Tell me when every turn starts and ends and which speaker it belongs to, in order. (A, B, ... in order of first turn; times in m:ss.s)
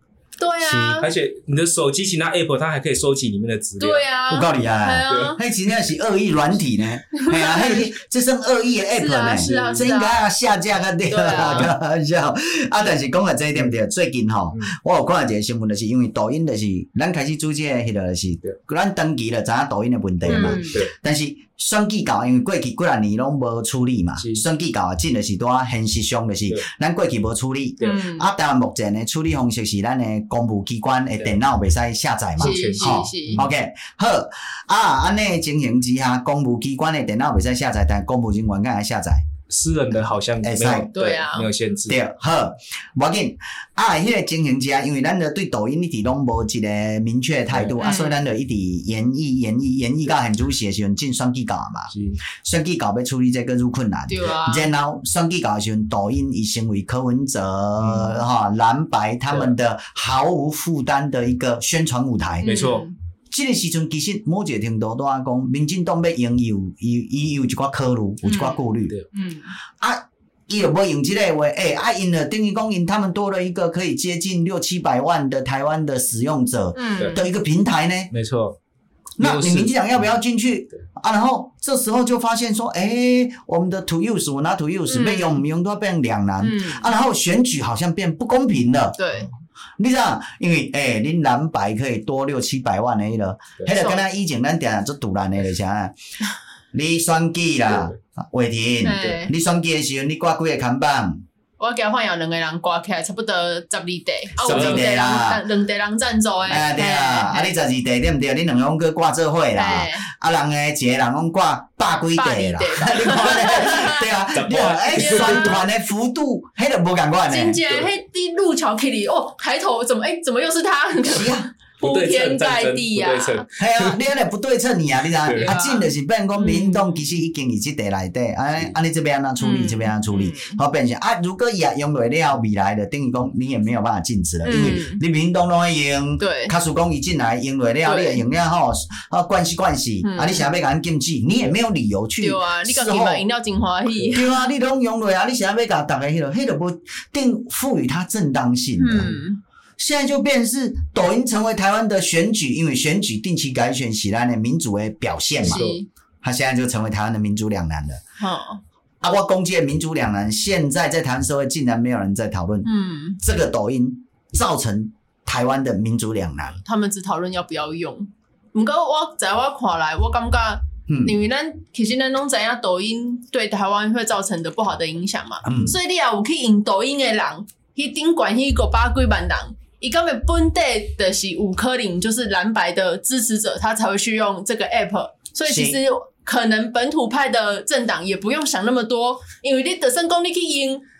0:00.4-0:01.1 A
0:00.6-0:04.1 B
0:03.8-0:05.4 A
0:04.3-0:39.3 C
0:05.1-0:05.3 B
0:07.1-0:07.8 A
0:09.0-0:10.2 A
0:09.3-0:09.9 B
0:11.1-0:11.7 A
0:11.4-0:11.7 B
0:20.2-0:20.9 B
0:20.3-0:20.8 A
0:24.2-0:24.4 B
0:27.8-0:28.3 A
0:32.4-0:33.5 B
0:32.4-0:33.4 A
0:39.5-0:42.0 B
0:40.4-0:40.9 C
0:40.9-0:41.5 A
0:41.9-1:02.6 C
0:47.5-0:47.8 B
0:47.8-0:48.2 A
0:51.9-0:52.2 B
0:54.1-0:54.7 A
0:57.8-0:58.2 B
1:02.4-1:02.9 A
1:02.4-1:02.8 B
1:03.3-1:08.9 C
1:08.2-1:08.6 A
1:09.1-1:09.5 A
1:09.8-1:18.1 C
1:16.7-1:17.3 A
1:18.1-1:18.6 B
1:19.2-1:20.0 B
1:19.2-1:29.0 C
1:24.9-1:25.4 A
1:26.4-1:26.9 A
1:29.0-1:29.3 A
1:29.8-1:35.9 C
1:33.7-1:34.0 A
1:36.7-1:41.2 C
1:38.8-1:39.3 A
1:41.6-1:47.5 A
1:44.4-1:45.4 C
1:44.4-1:44.9 B
1:46.5-1:57.6 C
1:49.5-1:50.0 A
1:52.1-1:54.1 A
1:54.3-1:55.6 B
1:54.9-1:55.6 A
1:57.3-2:03.4 A
2:01.0-2:01.5 C
2:01.8-2:04.0 B
2:03.6-2:23.2 C
2:05.2-2:05.5 B
2:05.3-2:06.9 A
2:09.4-2:10.6 A
2:14.4-2:15.0 A
2:16.2-2:16.5 A
2:17.8-2:18.2 A
2:20.0-2:20.5 A
2:22.2-2:24.4 A
2:24.1-2:29.2 C
2:28.8-2:29.4 A
2:29.8-2:35.7 C
2:35.4-2:35.8 B
2:35.4-2:35.9 A
2:36.2-2:38.0 C
2:38.2-2:38.6 A
2:39.0-2:42.7 C
2:42.6-2:43.2 A
2:43.2-2:46.6 C
2:46.6-3:10.8 A
2:50.9-2:51.2 C
2:55.4-2:55.7 C
3:05.5-3:05.8 C